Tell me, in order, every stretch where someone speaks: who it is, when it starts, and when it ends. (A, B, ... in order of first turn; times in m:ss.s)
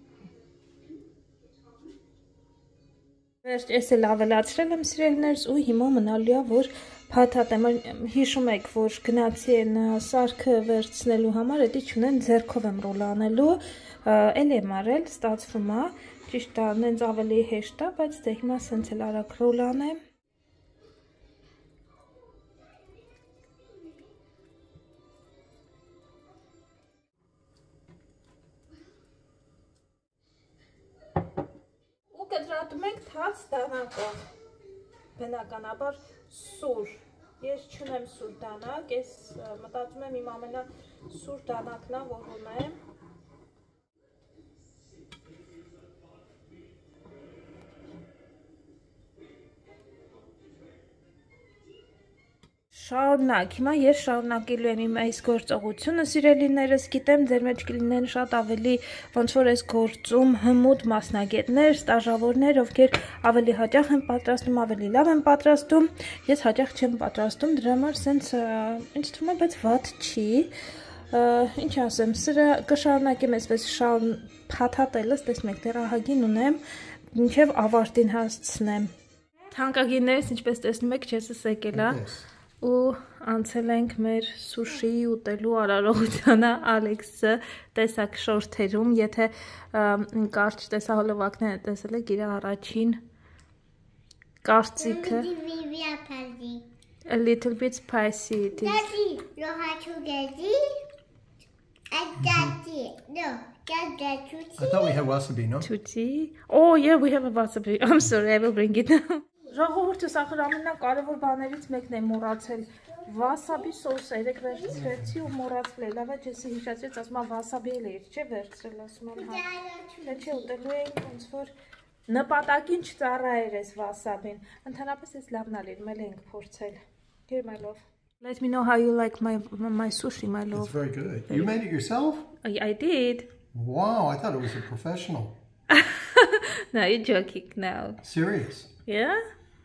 0:03.4-0:20.0 A
0:32.1-0:34.2 A
0:35.2-0:42.8 A
0:52.7-1:10.5 A
1:11.1-1:16.6 A
1:17.1-1:18.9 A
1:19.5-1:22.0 A
1:21.7-1:22.3 B
1:22.6-1:33.0 A
1:34.4-1:35.3 A
1:34.8-1:36.7 C
1:37.1-1:38.9 A
1:38.6-1:40.7 C
1:41.9-1:45.0 C
1:42.2-1:42.6 B
1:44.6-1:45.7 B
1:45.6-1:59.5 A
1:53.0-1:53.7 C
1:54.7-1:55.3 B
1:59.2-2:00.5 C
2:00.0-2:01.5 A
2:02.1-2:10.8 A
2:10.5-2:12.3 B
2:12.4-2:13.3 A
2:13.5-2:15.4 B
2:15.7-2:18.0 A
2:18.0-2:18.7 B
2:18.9-2:19.2 A